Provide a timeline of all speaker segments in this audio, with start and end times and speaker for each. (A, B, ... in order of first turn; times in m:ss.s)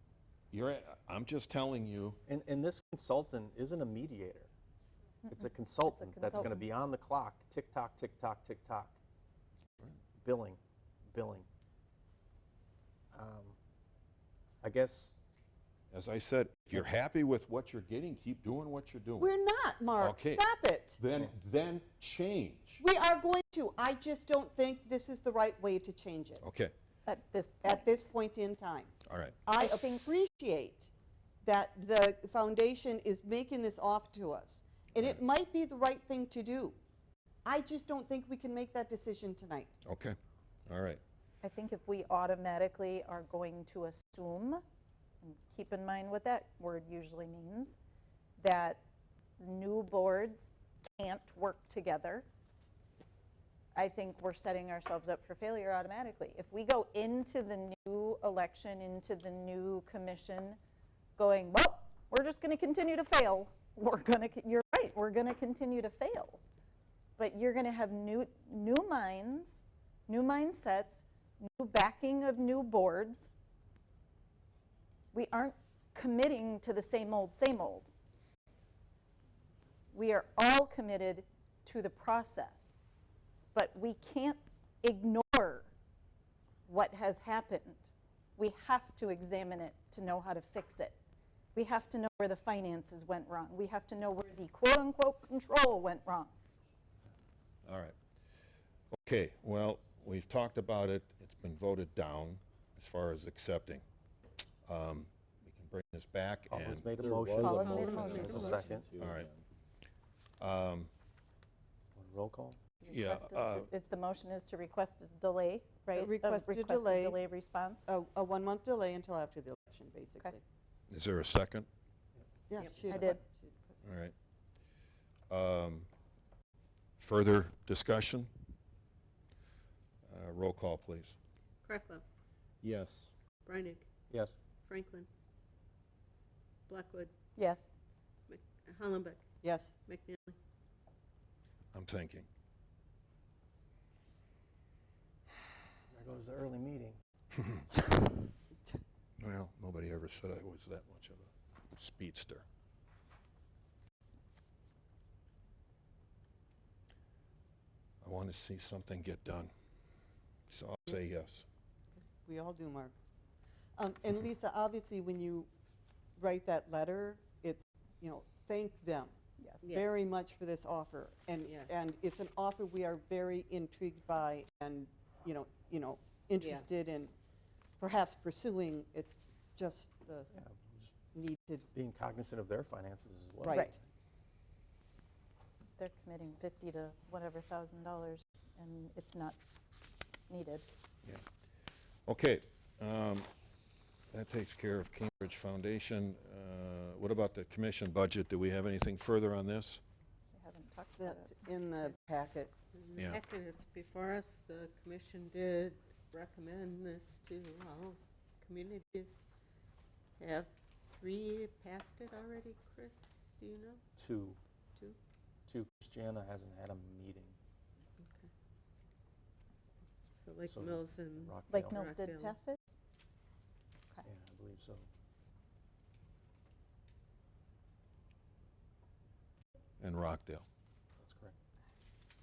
0:00.5-0:02.2 A
0:02.3-0:04.5 B
0:05.3-0:06.7 C
0:05.3-0:09.0 B
0:10.2-0:11.5 B
0:13.1-0:13.6 B
0:14.6-0:15.1 B
0:15.9-0:19.4 A
0:19.2-0:21.0 D
0:20.0-0:20.4 A
0:21.0-0:22.8 A
0:22.8-0:26.4 D
0:26.4-0:26.7 A
0:27.1-0:28.1 C
0:27.6-0:30.9 D
0:29.1-0:29.4 A
0:29.6-0:30.1 C
0:31.4-0:36.8 D
0:37.4-0:39.7 D
0:39.8-0:40.2 A
0:40.7-0:41.0 A
0:41.4-0:44.6 C
0:45.2-0:47.8 C
0:48.4-0:48.8 C
0:49.4-0:52.3 C
0:53.8-1:00.6 C
1:01.2-1:06.4 C
1:07.2-1:13.3 C
1:15.1-1:17.9 C
1:19.9-1:22.8 C
1:23.5-1:25.7 C
1:26.7-1:31.0 C
1:31.6-1:36.3 C
1:37.7-1:38.0 A
1:39.0-1:43.8 A
1:44.7-1:46.9 A
1:46.5-1:48.9 B
1:47.0-1:49.4 E
1:47.4-1:48.6 C
1:47.6-1:48.4 F
1:49.0-1:49.3 A
1:50.4-1:50.9 A
1:52.0-1:52.6 B
1:52.8-1:57.9 C
1:52.9-1:53.7 A
1:55.9-1:57.2 D
1:57.9-2:00.4 D
2:00.9-2:01.7 A
2:02.5-2:03.8 D
2:02.8-2:03.2 C
2:03.8-2:04.1 A
2:05.3-2:05.9 A
2:07.0-2:08.3 A
2:10.1-2:11.2 A
2:11.6-2:12.0 F
2:12.6-2:13.1 E
2:13.4-2:13.9 F
2:14.1-2:14.4 B
2:14.7-2:15.1 F
2:16.7-2:17.1 F
2:17.4-2:17.7 C
2:18.3-2:19.2 F
2:19.4-2:19.7 D
2:19.8-2:20.4 F
2:21.7-2:22.3 A
2:25.9-2:27.0 B
2:27.5-2:27.8 A
2:29.2-2:32.4 A
2:38.0-2:39.5 A
2:40.5-2:41.5 A
2:42.3-2:42.9 D
2:43.8-2:45.5 D
2:46.2-2:57.1 D
2:49.4-2:49.7 C
2:49.6-2:49.9 F
2:51.5-2:51.8 F
2:56.4-2:56.6 F
2:57.8-3:00.3 D
3:00.4-3:00.9 B
3:01.1-3:01.7 D
3:01.7-3:03.8 B
3:03.4-3:03.8 D
3:05.8-3:09.4 C
3:10.3-3:10.6 C
3:12.1-3:13.3 A
3:14.1-3:19.8 A
3:20.3-3:21.4 C
3:21.0-3:22.5 D
3:21.8-3:29.2 F
3:30.2-3:33.8 F
3:34.0-3:34.4 B
3:35.5-3:37.4 B
3:38.0-3:38.3 F
3:40.1-3:42.4 F
3:40.4-3:41.9 B
3:41.5-3:42.6 C
3:44.0-3:44.9 B
3:49.8-3:50.5 A
3:51.0-3:51.4 B